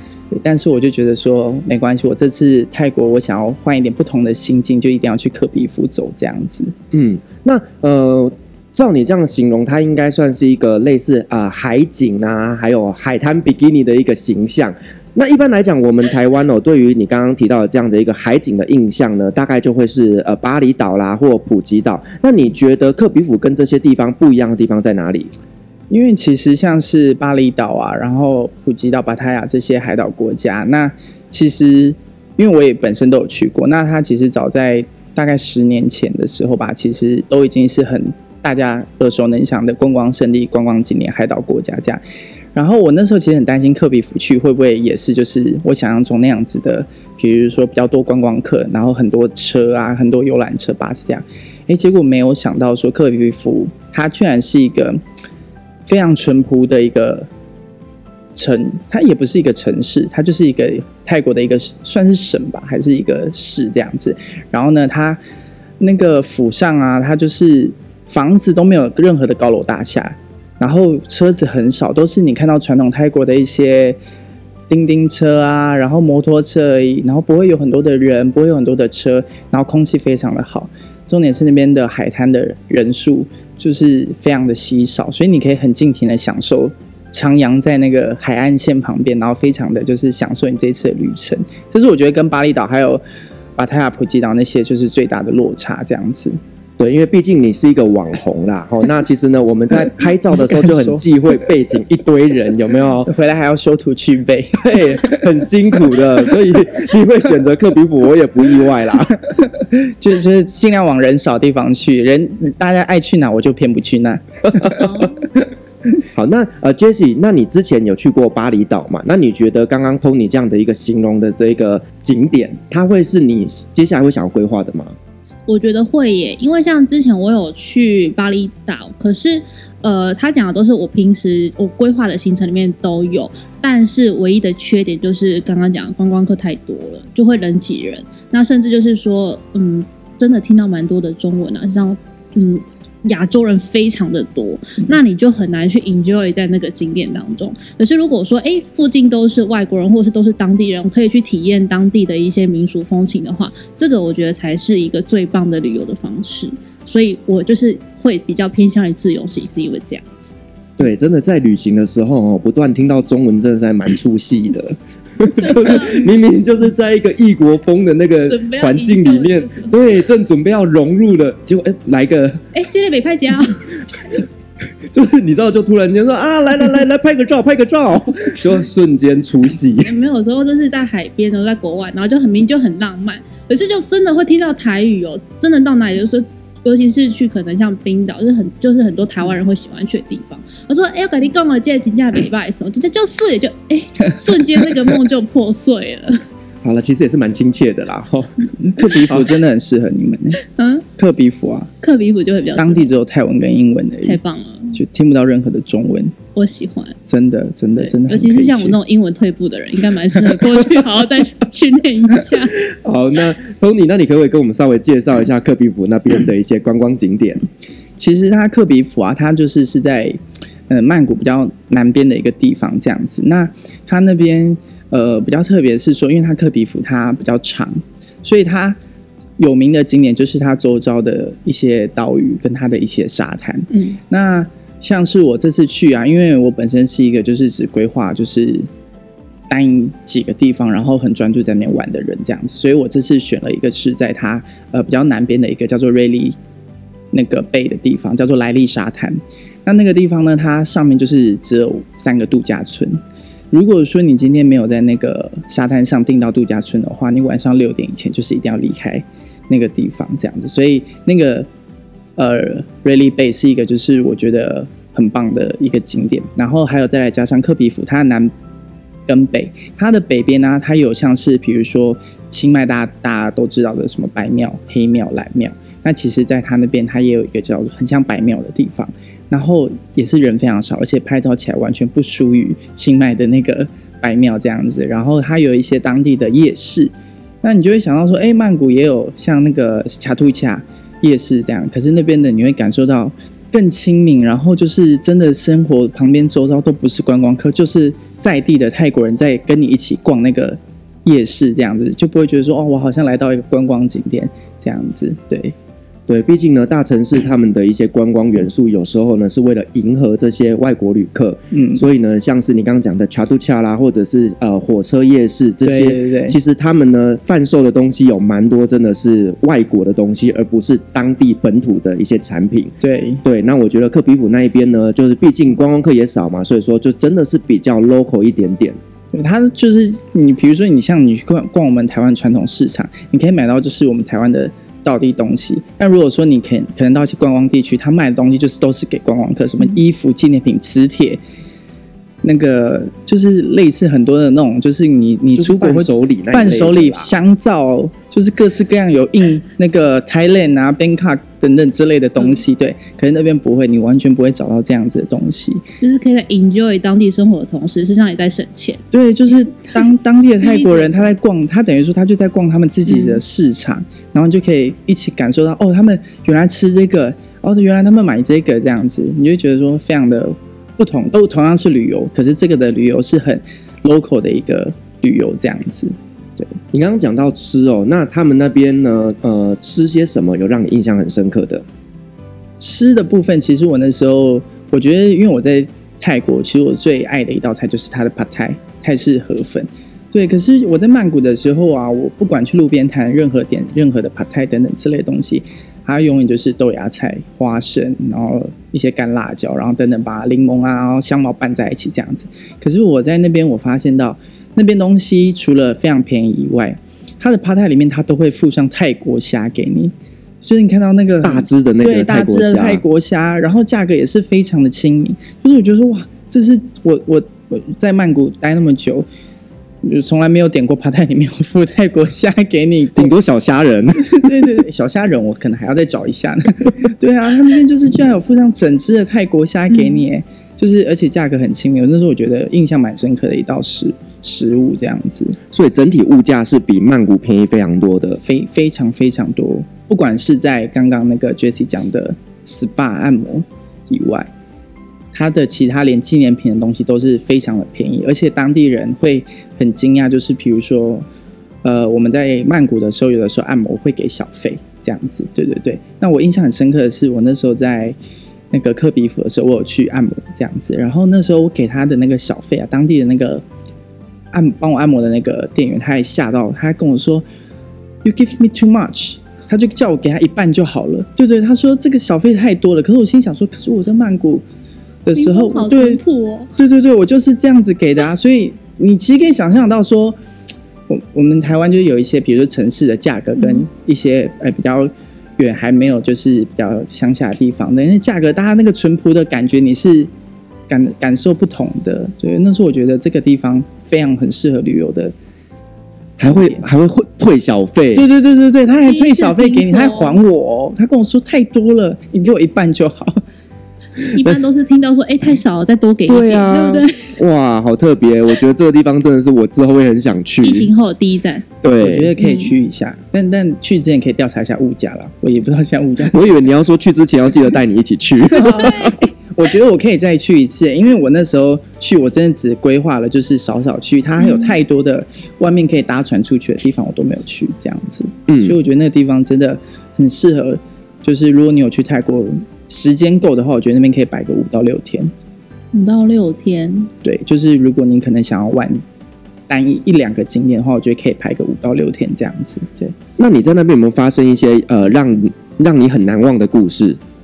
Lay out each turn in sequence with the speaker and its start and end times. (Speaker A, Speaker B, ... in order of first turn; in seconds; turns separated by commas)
Speaker A: 0.3-6.7, Speaker B: 6.9-25.3, Speaker A: 25.9-42.0, Speaker A: 42.5-55.0, Speaker A: 55.9-57.3, Speaker A: 58.4-65.2, Speaker A: 65.8-74.0, Speaker A: 74.7-93.0, Speaker A: 93.6-96.4, Speaker B: 96.8-103.1, Speaker A: 100.4-101.0, Speaker A: 103.1-105.4, Speaker B: 104.6-109.2, Speaker A: 109.5-114.9, Speaker B: 114.5-114.9, Speaker C: 114.8-115.2, Speaker B: 116.1-124.9, Speaker C: 125.5-160.2, Speaker B: 160.8-172.5, Speaker C: 165.4-165.9, Speaker C: 168.3-169.8, Speaker C: 172.5-173.8, Speaker B: 174.9-179.9, Speaker C: 179.8-196.2, Speaker B: 196.6-199.4, Speaker A: 198.6-200.4, Speaker C: 200.4-200.8, Speaker A: 201.0-201.7, Speaker C: 201.8-202.9, Speaker A: 202.6-204.2, Speaker C: 204.0-204.8, Speaker A: 204.7-206.2, Speaker C: 206.3-207.0, Speaker A: 207.1-208.8, Speaker C: 207.8-212.5, Speaker B: 212.7-217.5, Speaker A: 218.0-228.8, Speaker A: 229.4-238.7, Speaker C: 233.7-234.0, Speaker A: 239.5-246.4, Speaker A: 247.1-253.0, Speaker A: 253.5-261.5, Speaker A: 262.2-268.3, Speaker A: 269.1-286.9, Speaker A: 287.4-305.6, Speaker B: 306.1-328.8, Speaker A: 311.5-311.8, Speaker A: 315.6-316.4, Speaker A: 322.8-323.2, Speaker A: 329.1-341.2, Speaker A: 342.2-355.6, Speaker B: 345.4-347.1, Speaker C: 355.8-358.8, Speaker A: 358.9-376.6, Speaker C: 360.4-361.1, Speaker C: 362.9-363.2, Speaker B: 376.7-381.6, Speaker A: 382.6-419.1, Speaker B: 411.2-412.8, Speaker A: 419.8-423.1, Speaker B: 423.0-424.5, Speaker A: 424.1-435.4, Speaker B: 435.5-438.2, Speaker A: 438.2-444.3, Speaker A: 445.1-451.1, Speaker A: 451.6-458.0, Speaker A: 458.5-463.4, Speaker A: 464.3-467.2, Speaker A: 468.0-474.4, Speaker A: 475.1-476.0, Speaker C: 475.1-476.5, Speaker A: 476.6-480.2, Speaker A: 480.9-490.1, Speaker C: 483.4-483.6, Speaker A: 490.7-495.1, Speaker A: 496.2-496.7, Speaker B: 496.2-498.1, Speaker A: 498.0-503.2, Speaker C: 498.9-500.1, Speaker C: 504.1-507.2, Speaker B: 506.1-510.7, Speaker C: 510.4-511.4, Speaker B: 511.6-512.1, Speaker A: 511.8-516.2, Speaker C: 512.2-512.5, Speaker B: 516.1-519.0, Speaker A: 518.3-535.1, Speaker C: 518.4-519.0, Speaker C: 524.2-524.5, Speaker B: 528.3-528.6, Speaker C: 535.7-536.9, Speaker A: 537.0-538.8, Speaker A: 539.5-543.0, Speaker B: 543.2-547.0